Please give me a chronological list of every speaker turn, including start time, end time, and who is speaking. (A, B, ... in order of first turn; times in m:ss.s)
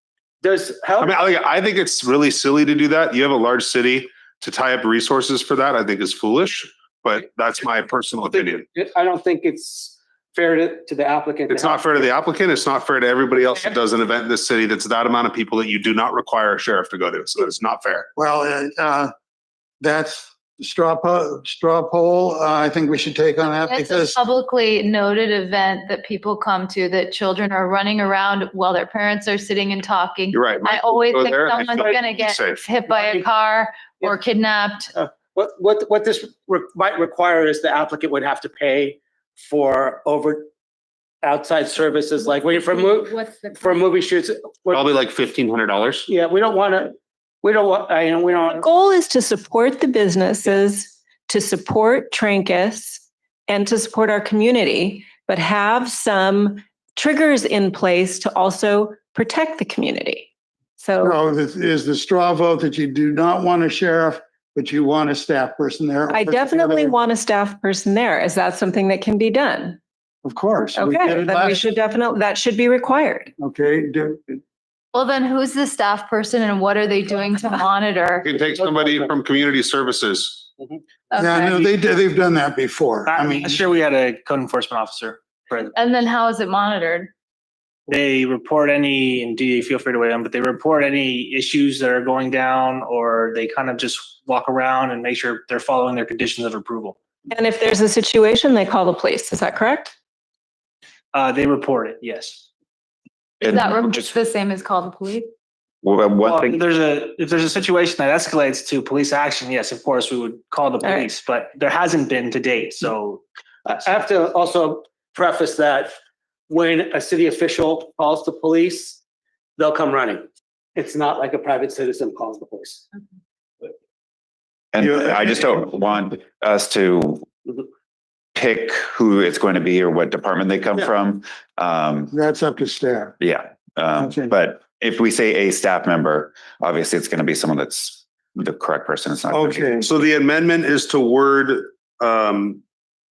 0:00.4-0:01.2 A
0:01.0-0:08.7 B
0:08.3-0:12.1 A
0:11.5-0:18.1 B
0:18.2-0:19.1 C
0:19.8-0:24.2 C
0:23.6-0:34.9 D
0:30.3-0:32.8 B
0:32.9-0:33.2 A
0:34.9-0:40.5 A
0:41.2-0:44.8 A
0:42.4-0:43.8 D
0:44.7-0:46.1 B
0:46.1-0:48.7 A
0:48.5-1:01.2 E
1:01.0-1:07.0 C
1:06.1-1:09.8 E
1:10.2-1:11.6 C
1:10.8-1:13.3 E
1:13.4-1:14.4 C
1:14.9-1:18.3 D
1:18.2-1:20.5 B
1:21.1-1:21.5 D
1:21.2-1:23.6 C
1:23.1-1:25.7 F
1:25.8-1:27.1 D
1:27.9-1:37.0 F
1:37.3-1:39.9 E
1:41.1-1:42.4 F
1:43.4-1:44.1 G
1:43.4-1:45.3 D
1:45.8-1:46.6 G
1:46.2-1:53.2 F
1:53.6-1:56.0 A
1:56.5-1:59.0 A
1:59.6-2:02.8 A
2:04.7-2:07.3 G
2:04.8-2:05.6 C
2:08.3-2:12.1 G
2:12.1-2:13.2 C
2:13.2-2:19.8 G
2:14.0-2:14.3 C
2:19.3-2:19.9 C
2:19.8-2:22.6 B